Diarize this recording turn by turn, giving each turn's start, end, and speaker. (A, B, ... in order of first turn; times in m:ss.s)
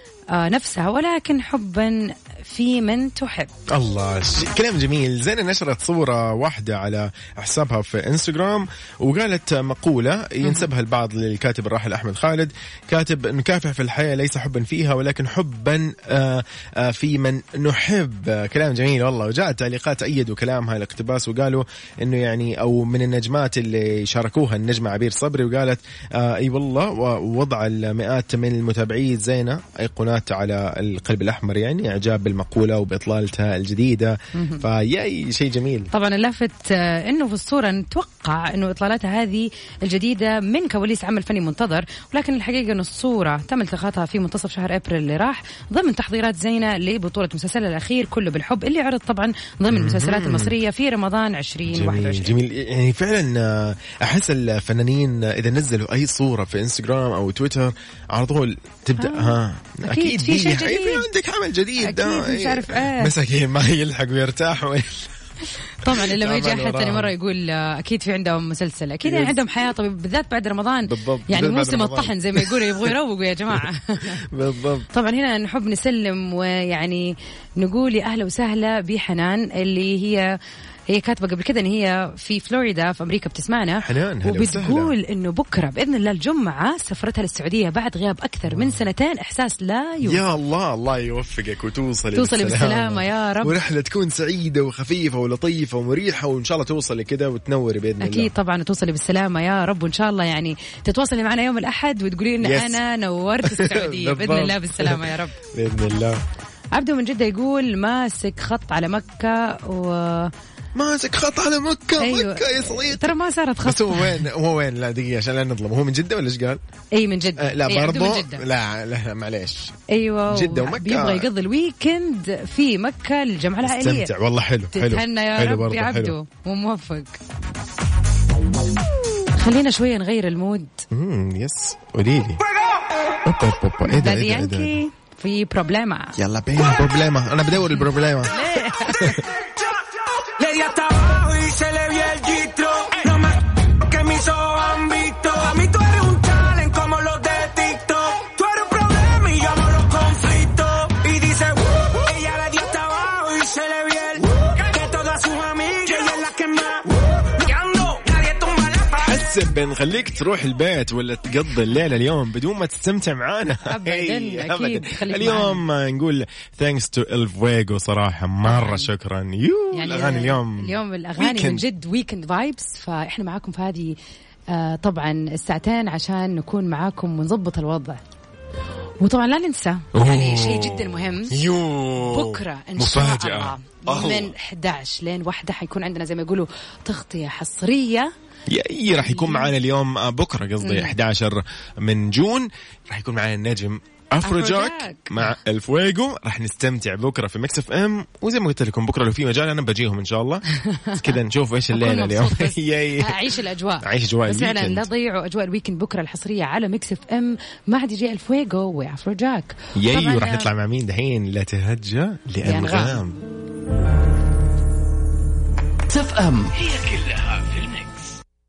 0:00.3-0:03.5 A
0:03.7-0:35.9 B
0:34.3-0:34.6 A
0:35.9-0:52.3 A
0:49.7-0:50.5 B
0:51.7-1:05.1 B
0:59.0-1:01.0 A
1:01.8-1:03.1 A
1:05.8-1:14.3 A
1:05.8-1:07.1 B
1:09.0-1:09.4 B
1:10.9-1:12.9 B
1:14.2-1:14.9 B
1:14.9-1:20.4 A
1:20.9-1:30.2 A
1:23.8-1:24.9 B
1:28.5-1:28.8 B
1:30.0-1:38.3 B
1:32.1-1:33.5 A
1:38.0-1:45.3 A
1:42.4-1:42.8 B
1:43.4-1:45.0 B
1:45.5-1:46.2 B
1:46.7-1:50.3 A
1:50.7-1:56.6 B
1:52.0-1:54.2 A
1:56.9-1:58.4 A
1:57.4-1:59.8 B
1:59.9-2:04.1 A
2:00.3-2:01.3 B
2:03.6-2:06.1 B
2:04.7-2:07.2 A
2:09.3-2:10.8 A
2:10.9-2:12.4 B
2:13.2-2:14.8 B
2:13.8-2:16.2 A
2:16.2-2:19.2 B
2:18.3-2:19.2 A
2:19.2-2:39.2 C
2:39.0-2:51.6 B
2:43.6-2:45.6 A
2:48.4-2:48.9 A
2:49.7-2:54.0 A
2:54.5-2:58.0 A
2:59.0-3:01.4 A
2:59.9-3:04.3 B
3:02.0-3:08.1 A
3:08.5-3:24.9 B
3:09.0-3:09.5 A
3:10.6-3:10.9 A
3:14.2-3:15.3 A
3:20.6-3:21.0 A
3:21.7-3:30.5 A
3:29.8-3:33.2 B
3:32.4-3:33.0 A
3:35.9-3:38.0 D